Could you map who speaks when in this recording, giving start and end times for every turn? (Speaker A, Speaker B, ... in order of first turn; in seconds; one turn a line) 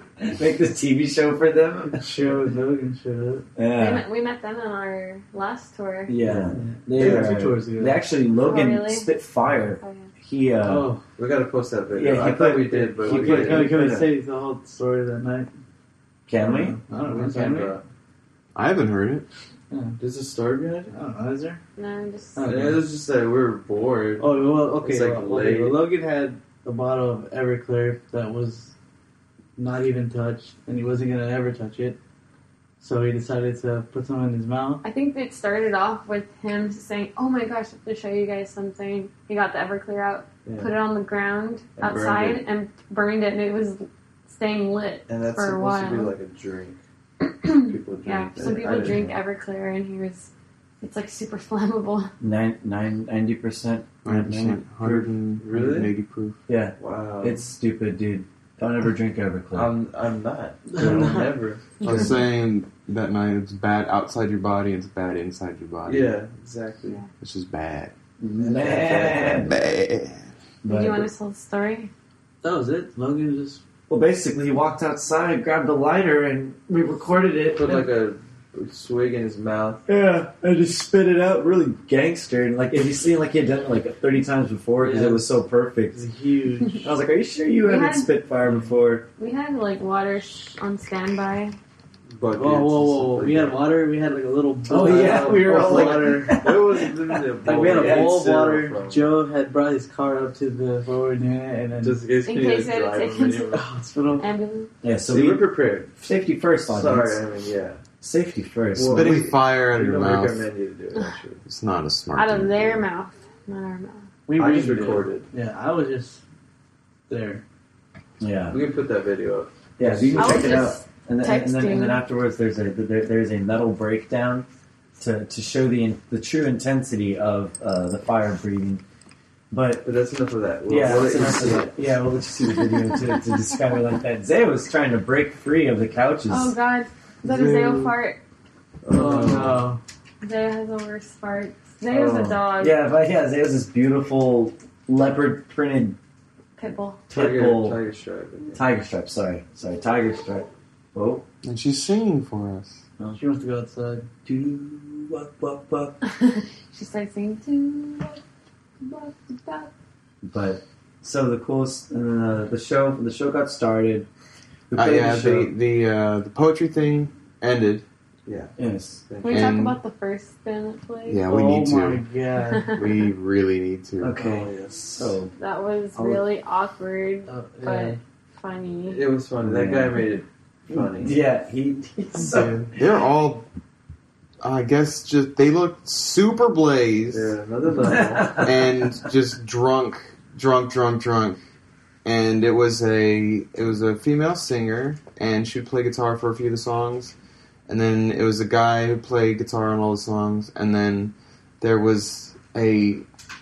Speaker A: 0.2-2.0
Speaker B: 1.9-3.5
Speaker A: 3.5-4.0
Speaker C: 3.8-6.2
Speaker A: 6.1-10.9
Speaker B: 6.3-8.0
Speaker D: 6.9-7.5
Speaker C: 8.3-9.2
Speaker C: 9.8-10.1
Speaker B: 10.6-11.0
Speaker D: 11.2-13.8
Speaker A: 11.9-14.1
Speaker B: 12.9-15.5
Speaker A: 16.3-16.8
Speaker B: 16.4-17.8
Speaker D: 16.9-17.8
Speaker E: 18.5-19.2
Speaker B: 19.7-20.0
Speaker D: 20.0-20.9
Speaker B: 20.9-21.6
Speaker C: 21.8-22.5
Speaker B: 22.4-22.9
Speaker D: 22.4-25.8
Speaker B: 24.2-28.7
Speaker B: 29.6-32.0
Speaker B: 32.8-34.8
Speaker C: 34.8-46.1
Speaker D: 40.4-40.7
Speaker D: 41.8-42.4
Speaker D: 45.1-46.8
Speaker C: 47.2-50.3
Speaker D: 47.6-49.1
Speaker C: 50.8-52.1
Speaker A: 52.2-55.1
Speaker E: 54.0-56.4
Speaker D: 55.4-55.9
Speaker A: 56.5-59.7
Speaker D: 56.8-57.4
Speaker D: 59.5-62.1
Speaker B: 60.7-61.4
Speaker A: 60.8-61.1
Speaker C: 61.8-62.1
Speaker E: 61.8-66.2
Speaker D: 65.8-67.0
Speaker E: 67.2-67.9
Speaker A: 68.2-69.5
Speaker D: 68.4-69.5
Speaker E: 69.4-70.3
Speaker A: 70.6-71.1
Speaker C: 70.7-71.9
Speaker B: 72.4-73.6
Speaker A: 73.9-77.8
Speaker D: 77.5-79.8
Speaker A: 79.9-86.0
Speaker B: 84.8-85.3
Speaker B: 85.9-86.9
Speaker A: 86.8-89.0
Speaker C: 87.6-88.1
Speaker C: 89.2-91.5
Speaker D: 92.1-93.7
Speaker B: 92.3-96.6
Speaker A: 94.7-98.2
Speaker D: 94.7-99.1
Speaker B: 97.3-102.0
Speaker D: 101.8-103.6
Speaker C: 102.2-103.7
Speaker B: 103.5-104.2
Speaker C: 104.2-104.7
Speaker A: 104.8-107.2
Speaker D: 105.1-105.9
Speaker D: 106.7-107.8
Speaker A: 108.0-109.2
Speaker D: 108.7-111.4
Speaker E: 108.9-110.5
Speaker E: 111.5-112.8
Speaker C: 112.1-114.1
Speaker B: 114.3-116.2
Speaker D: 114.3-115.3
Speaker B: 117.1-117.4
Speaker A: 118.2-118.6
Speaker D: 118.5-120.7
Speaker A: 119.8-124.5
Speaker C: 120.2-122.0
Speaker A: 125.0-128.8
Speaker A: 129.5-129.8
Speaker D: 129.8-131.7
Speaker A: 130.7-136.5
Speaker C: 132.5-133.6
Speaker C: 136.3-138.2
Speaker D: 137.3-137.9
Speaker D: 138.8-139.7
Speaker B: 138.8-139.8
Speaker C: 140.2-142.8
Speaker D: 141.9-142.4
Speaker A: 142.6-146.0
Speaker C: 146.6-147.0
Speaker A: 147.1-147.8
Speaker D: 147.1-148.6
Speaker A: 148.5-151.2
Speaker E: 151.4-152.8
Speaker B: 153.1-154.1
Speaker A: 154.2-156.0
Speaker C: 156.2-158.2
Speaker C: 158.8-159.7
Speaker A: 160.2-164.1
Speaker A: 164.7-165.5
Speaker E: 164.7-167.8
Speaker D: 168.3-169.5
Speaker A: 168.6-169.0
Speaker C: 169.2-171.2
Speaker E: 169.2-169.8
Speaker E: 171.1-172.0
Speaker B: 171.3-172.8
Speaker C: 172.5-172.8
Speaker E: 172.7-174.2
Speaker A: 174.0-175.3
Speaker D: 174.2-175.2
Speaker C: 175.3-179.0
Speaker A: 175.9-176.2
Speaker B: 177.3-178.0
Speaker D: 178.9-181.2
Speaker A: 179.4-180.0
Speaker A: 180.7-182.7
Speaker D: 182.3-182.6
Speaker E: 182.6-183.4
Speaker E: 184.4-187.3
Speaker D: 187.1-188.5
Speaker A: 187.8-188.6
Speaker E: 188.4-191.4
Speaker E: 192.0-197.1
Speaker E: 197.7-203.0